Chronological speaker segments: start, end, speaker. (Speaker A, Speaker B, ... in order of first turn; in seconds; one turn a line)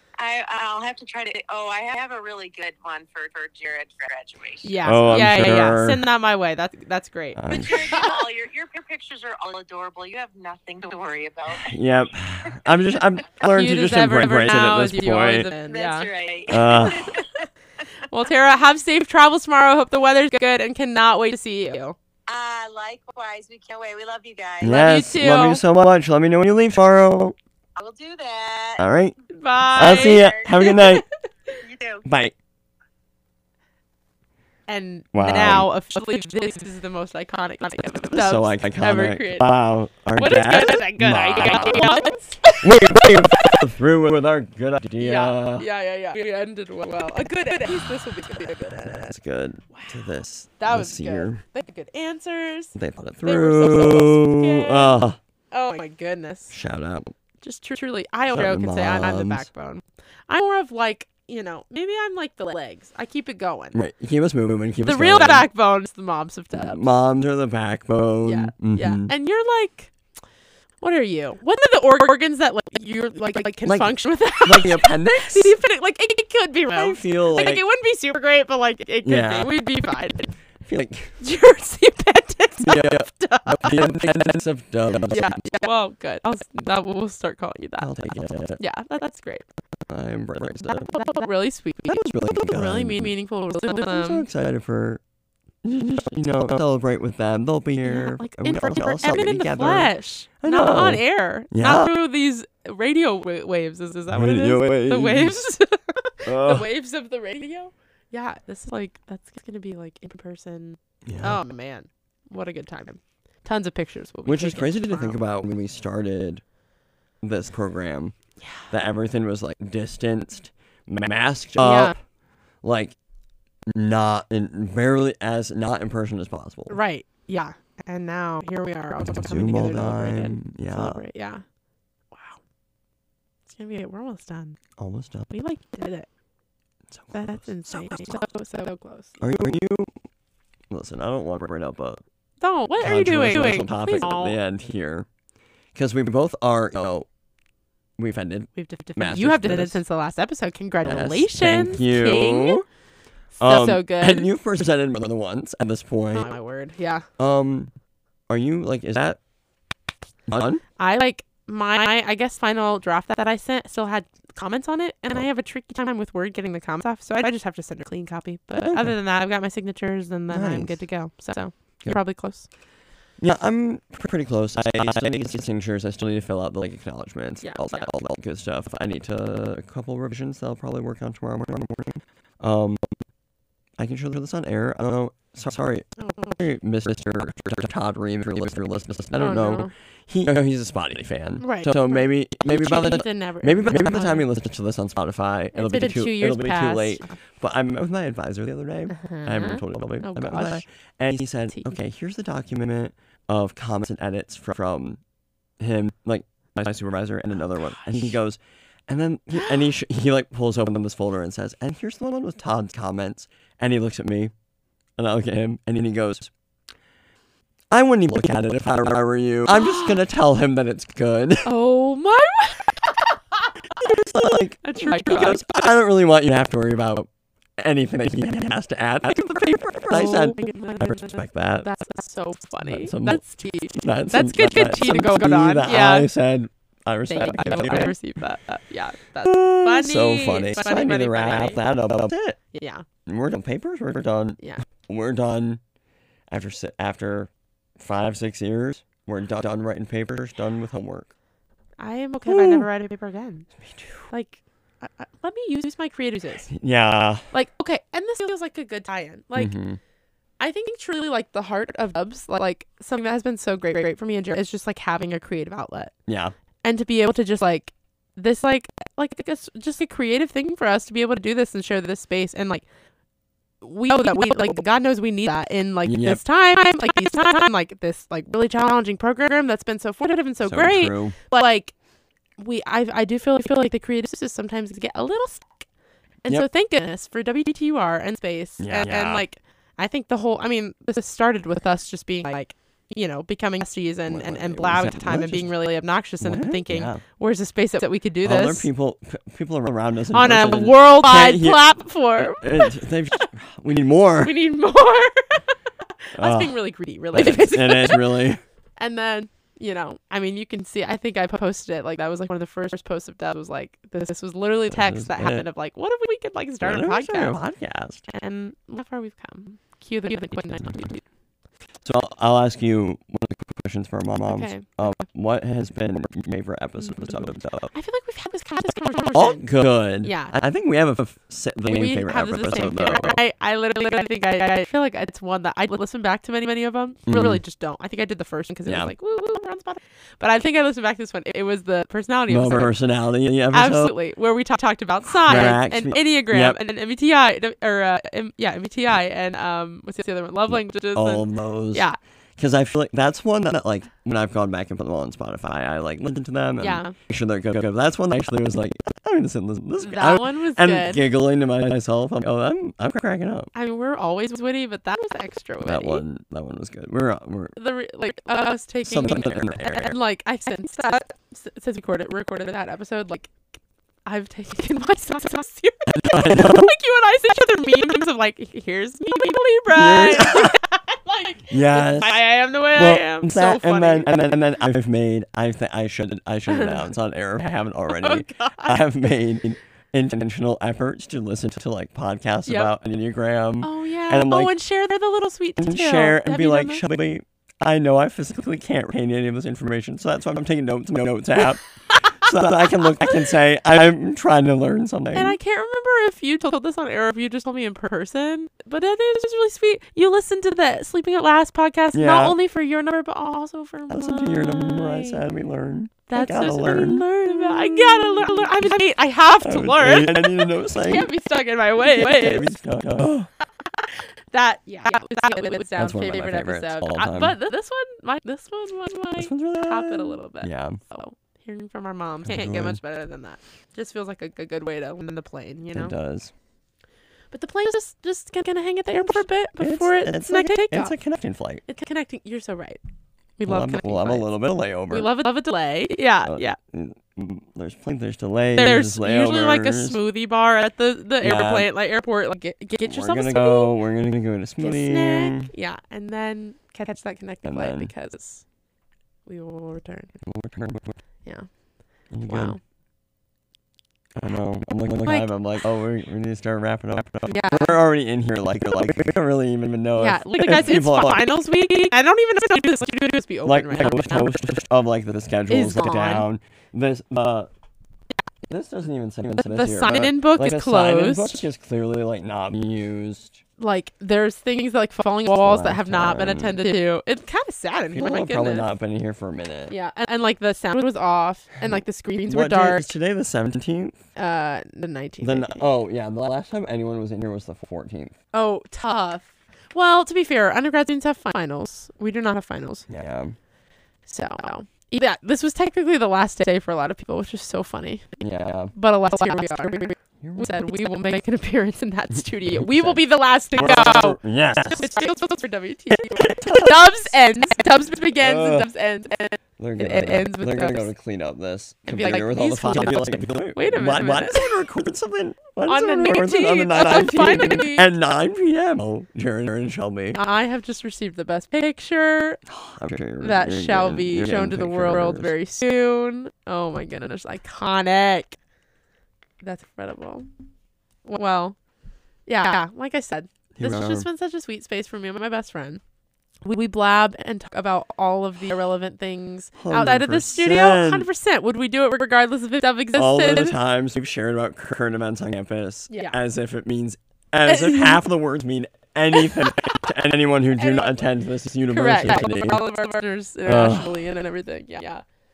Speaker A: 0.2-4.8
Speaker B: 4.6-8.1
Speaker C: 4.8-6.0
Speaker C: 7.3-8.0
Speaker A: 7.5-11.7
Speaker C: 11.6-15.5
Speaker B: 13.5-16.1
Speaker A: 15.7-17.5
Speaker C: 16.5-17.1
Speaker B: 18.1-22.0
Speaker A: 22.3-24.8
Speaker C: 24.6-27.4
Speaker B: 24.6-25.6
Speaker A: 27.8-28.9
Speaker C: 28.8-29.1
Speaker B: 29.3-31.5
Speaker C: 29.7-31.1
Speaker A: 29.8-30.5
Speaker A: 31.6-32.0
Speaker C: 32.1-32.3
Speaker B: 34.7-39.5
Speaker C: 35.1-35.7
Speaker C: 38.1-42.1
Speaker B: 40.2-43.6
Speaker C: 42.6-45.7
Speaker B: 45.0-49.1
Speaker C: 48.8-51.4
Speaker B: 49.7-55.0
Speaker C: 52.8-55.2
Speaker B: 55.5-56.6
Speaker C: 56.5-57.1
Speaker B: 57.4-63.8
Speaker C: 58.3-59.5
Speaker C: 63.7-65.5
Speaker B: 64.8-66.8
Speaker C: 66.5-69.1
Speaker B: 68.2-69.9
Speaker B: 70.8-80.3
Speaker C: 73.6-75.5
Speaker C: 76.7-77.6
Speaker C: 79.0-79.5
Speaker C: 80.7-81.2
Speaker B: 81.2-84.1
Speaker C: 82.6-85.5
Speaker B: 85.1-87.9
Speaker C: 87.8-88.6
Speaker B: 88.6-89.5
Speaker C: 89.9-91.0
Speaker B: 90.7-94.3
Speaker C: 91.9-95.0
Speaker C: 95.6-101.9
Speaker B: 97.8-115.2
Speaker C: 104.1-105.4
Speaker C: 106.3-106.7
Speaker C: 111.1-111.4
Speaker C: 114.3-116.4
Speaker C: 117.2-118.1
Speaker C: 118.7-122.0
Speaker B: 121.6-121.9
Speaker C: 122.6-123.0
Speaker C: 123.7-126.8
Speaker B: 126.7-131.4
Speaker C: 129.1-131.0
Speaker B: 132.1-132.4
Speaker B: 133.5-134.6
Speaker C: 134.8-135.3
Speaker B: 135.3-136.1
Speaker C: 136.9-138.2
Speaker B: 137.1-139.2
Speaker C: 139.2-139.9
Speaker C: 140.7-142.0
Speaker B: 142.4-144.4
Speaker C: 142.8-145.1
Speaker C: 145.8-147.1
Speaker C: 148.0-149.8
Speaker B: 148.6-152.6
Speaker C: 150.8-152.6
Speaker B: 153.4-154.3
Speaker C: 153.4-156.3
Speaker B: 156.1-157.1
Speaker C: 157.2-157.7
Speaker C: 158.3-159.2
Speaker C: 160.3-160.6
Speaker B: 160.8-172.5
Speaker C: 168.6-168.9
Speaker C: 170.3-170.8
Speaker C: 173.2-182.9
Speaker B: 177.4-177.9
Speaker C: 183.8-185.9
Speaker B: 186.0-186.4
Speaker C: 186.4-205.0
Speaker B: 189.2-189.7
Speaker B: 191.4-194.3
Speaker B: 195.5-197.2
Speaker B: 198.9-200.6
Speaker B: 201.5-201.8
Speaker C: 205.6-214.3
Speaker B: 207.6-208.1
Speaker B: 209.3-209.7
Speaker C: 215.0-216.3
Speaker C: 217.7-221.5
Speaker B: 219.5-220.0
Speaker B: 221.4-223.5
Speaker C: 223.8-231.7
Speaker B: 224.6-225.4
Speaker B: 229.9-236.1
Speaker C: 232.6-238.0
Speaker B: 237.1-241.6
Speaker C: 239.2-242.4
Speaker B: 242.5-242.8
Speaker C: 243.1-245.6
Speaker B: 244.4-244.6
Speaker C: 246.3-251.1
Speaker B: 251.8-253.5
Speaker C: 252.3-252.7
Speaker C: 253.7-254.0
Speaker B: 254.1-256.5
Speaker C: 256.5-257.2
Speaker B: 257.3-259.5
Speaker C: 259.4-259.8
Speaker B: 260.4-265.9
Speaker C: 266.1-266.3
Speaker B: 266.6-272.6
Speaker B: 273.6-281.7
Speaker C: 275.8-276.2
Speaker C: 280.4-281.2
Speaker B: 282.4-285.6
Speaker B: 286.2-298.7
Speaker C: 288.6-289.2
Speaker C: 294.1-295.5
Speaker C: 296.2-297.0
Speaker C: 298.2-304.4
Speaker B: 300.1-302.8
Speaker B: 304.2-305.5
Speaker B: 306.1-308.2
Speaker C: 306.2-306.6
Speaker C: 307.1-308.4
Speaker B: 308.8-317.4
Speaker C: 314.7-315.4
Speaker C: 316.6-318.1
Speaker B: 318.1-321.1
Speaker C: 320.4-320.8
Speaker C: 321.9-327.7
Speaker B: 324.2-325.0
Speaker B: 327.7-329.5
Speaker C: 329.1-333.2
Speaker B: 330.0-330.3
Speaker B: 331.7-342.7
Speaker C: 337.1-337.4
Speaker C: 338.7-338.9
Speaker C: 342.3-343.9
Speaker B: 343.5-352.0
Speaker C: 345.1-346.6
Speaker C: 350.5-351.9
Speaker C: 352.4-363.5
Speaker B: 356.6-357.0
Speaker B: 359.8-361.1
Speaker B: 363.5-366.1
Speaker C: 365.6-367.6
Speaker B: 367.6-373.3
Speaker C: 368.9-370.0
Speaker B: 374.1-384.1
Speaker C: 375.9-376.7
Speaker C: 379.7-380.6
Speaker C: 381.5-394.6
Speaker B: 386.5-386.9
Speaker B: 387.9-388.8
Speaker B: 392.5-392.7
Speaker B: 393.6-396.8
Speaker C: 395.6-401.6
Speaker C: 402.2-405.4
Speaker B: 405.1-415.2
Speaker C: 411.9-412.4
Speaker C: 413.9-418.7
Speaker B: 416.1-422.5
Speaker C: 419.4-421.1
Speaker C: 421.8-423.3
Speaker B: 424.3-435.9
Speaker C: 425.8-427.4
Speaker C: 429.2-430.8
Speaker C: 432.3-432.8
Speaker C: 435.7-436.3
Speaker B: 437.3-440.9
Speaker C: 439.1-441.6
Speaker B: 441.7-442.8
Speaker B: 443.4-444.3
Speaker C: 443.5-445.1
Speaker B: 444.9-446.6
Speaker C: 446.2-450.0
Speaker B: 448.6-453.8
Speaker C: 451.2-451.7
Speaker C: 452.8-455.5
Speaker B: 454.6-458.4
Speaker C: 457.4-457.9
Speaker B: 459.3-460.1
Speaker C: 460.2-461.0
Speaker C: 462.1-462.6
Speaker B: 462.3-462.6
Speaker C: 464.2-471.3
Speaker B: 465.1-465.3
Speaker B: 467.3-467.8
Speaker B: 470.0-474.3
Speaker C: 473.5-477.5
Speaker B: 475.5-476.3
Speaker C: 478.5-483.4
Speaker B: 479.4-481.5
Speaker B: 483.6-488.7
Speaker C: 485.3-486.6
Speaker C: 487.9-489.7
Speaker B: 489.7-492.9
Speaker C: 492.3-494.0
Speaker B: 494.2-495.6
Speaker C: 495.2-498.1
Speaker B: 498.3-502.9
Speaker C: 502.9-503.4
Speaker B: 504.1-508.1
Speaker C: 508.2-508.7
Speaker B: 508.7-520.9
Speaker C: 510.2-510.6
Speaker C: 512.7-513.0
Speaker C: 513.5-515.0
Speaker C: 515.9-517.1
Speaker C: 518.2-518.7
Speaker C: 519.6-530.2
Speaker B: 521.9-524.6
Speaker B: 525.7-527.9
Speaker B: 530.1-532.4
Speaker C: 532.5-535.4
Speaker B: 533.2-538.4
Speaker B: 539.4-540.3
Speaker B: 541.0-541.6
Speaker B: 542.3-545.8
Speaker C: 543.5-544.1
Speaker B: 546.4-553.6
Speaker C: 549.6-551.1
Speaker C: 553.0-562.6
Speaker B: 555.9-556.2
Speaker B: 557.5-558.0
Speaker B: 560.6-561.1
Speaker B: 561.7-565.0
Speaker C: 563.5-564.0